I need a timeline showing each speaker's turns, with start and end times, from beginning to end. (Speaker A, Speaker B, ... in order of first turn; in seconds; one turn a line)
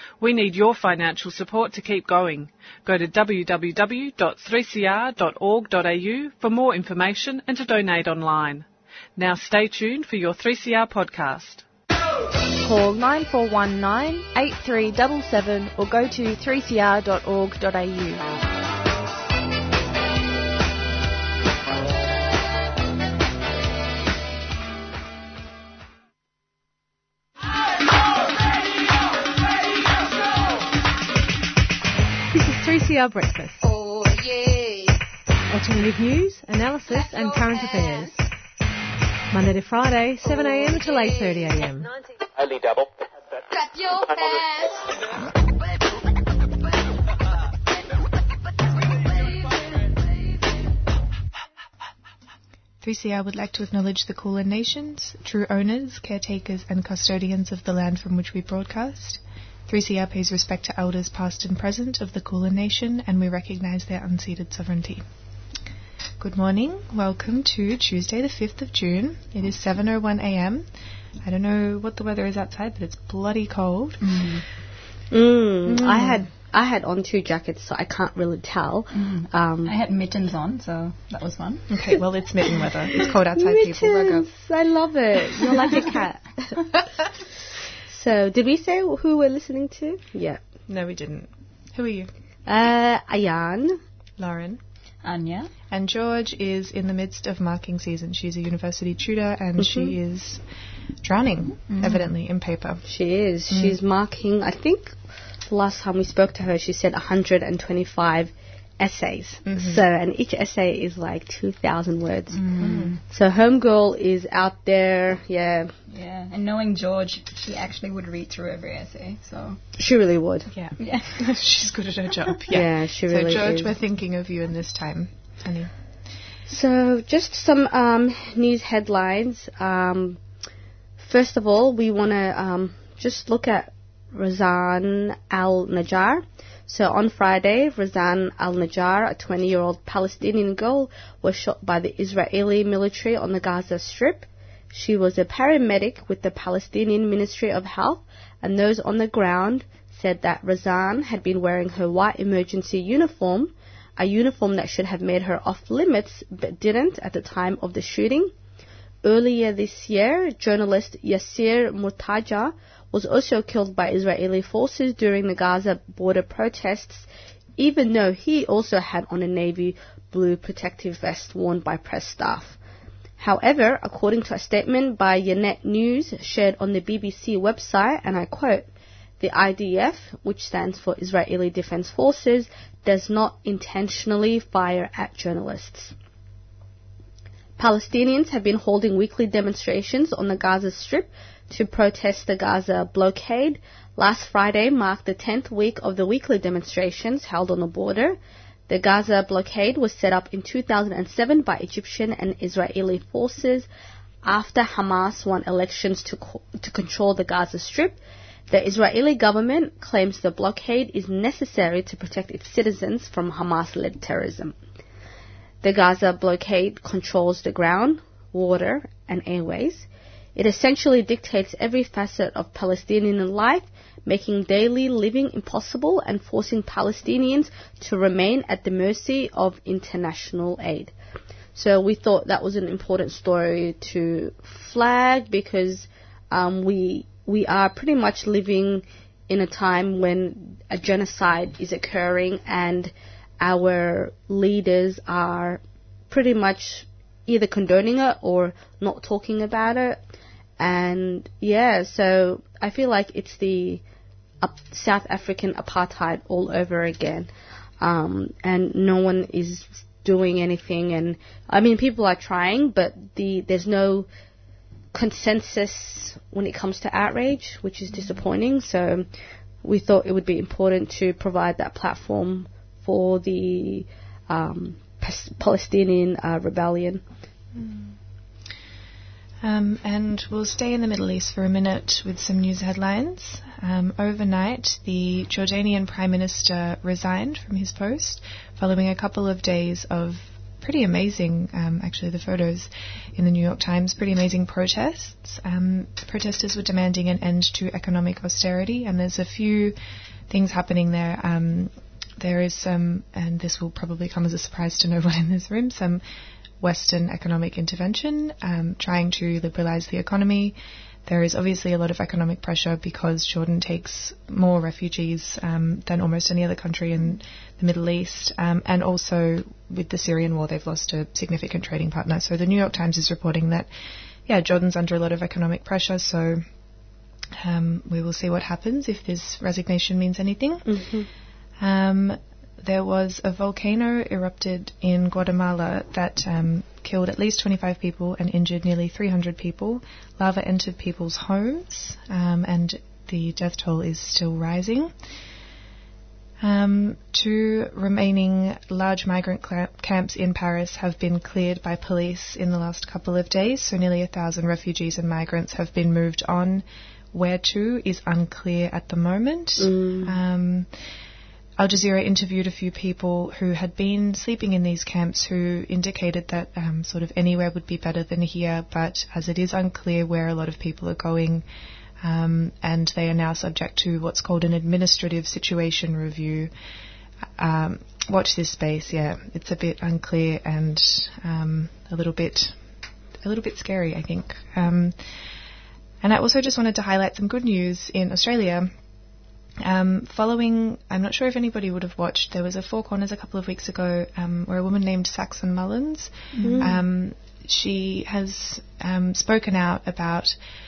Speaker A: 0.2-11.6
Speaker B: 12.6-18.2
Speaker C: 32.3-33.7
Speaker D: 33.7-35.0
Speaker C: 35.5-38.2
Speaker D: 37.2-37.9
Speaker C: 39.3-41.9
Speaker D: 43.5-44.9
Speaker E: 52.8-65.0
Speaker E: 66.2-70.7
Speaker E: 71.2-74.2
Speaker F: 74.0-74.4
Speaker G: 75.1-79.7
Speaker E: 75.7-76.2
Speaker F: 78.9-81.7
Speaker E: 81.7-84.3
Speaker G: 83.3-86.8
Speaker G: 87.8-90.4
Speaker E: 90.7-92.1
Speaker G: 92.5-93.8
Speaker E: 94.2-94.6
Speaker F: 95.0-95.5
Speaker E: 95.7-100.4
Speaker G: 99.6-99.9
Speaker E: 101.0-102.8
Speaker F: 101.7-102.0
Speaker G: 102.8-115.7
Speaker E: 103.5-103.8
Speaker E: 109.5-109.8
Speaker F: 112.3-113.0
Speaker E: 112.6-112.9
Speaker F: 115.9-119.6
Speaker G: 119.8-120.5
Speaker E: 120.5-125.7
Speaker F: 120.8-121.3
Speaker G: 122.5-123.7
Speaker G: 126.5-130.2
Speaker G: 131.0-158.3
Speaker G: 159.0-172.6
Speaker G: 173.2-185.9
Speaker G: 187.6-203.7
Speaker G: 204.2-208.0
Speaker G: 208.5-214.5
Speaker G: 215.6-230.9
Speaker G: 231.5-250.0
Speaker G: 250.6-253.8
Speaker G: 254.4-264.1
Speaker G: 264.9-269.1
Speaker G: 269.6-277.0
Speaker E: 277.6-277.9
Speaker E: 279.4-299.8
Speaker E: 300.3-306.0
Speaker E: 306.6-310.6
Speaker E: 311.1-323.7
Speaker E: 324.2-326.4
Speaker E: 327.4-330.8
Speaker G: 330.6-331.1
Speaker E: 331.6-344.9
Speaker E: 346.4-360.7
Speaker G: 359.6-360.1
Speaker E: 361.6-371.4
Speaker E: 372.0-376.5
Speaker E: 377.4-382.6
Speaker E: 383.2-384.9
Speaker E: 386.0-388.7
Speaker E: 389.6-400.4
Speaker F: 396.3-396.7
Speaker G: 396.4-396.8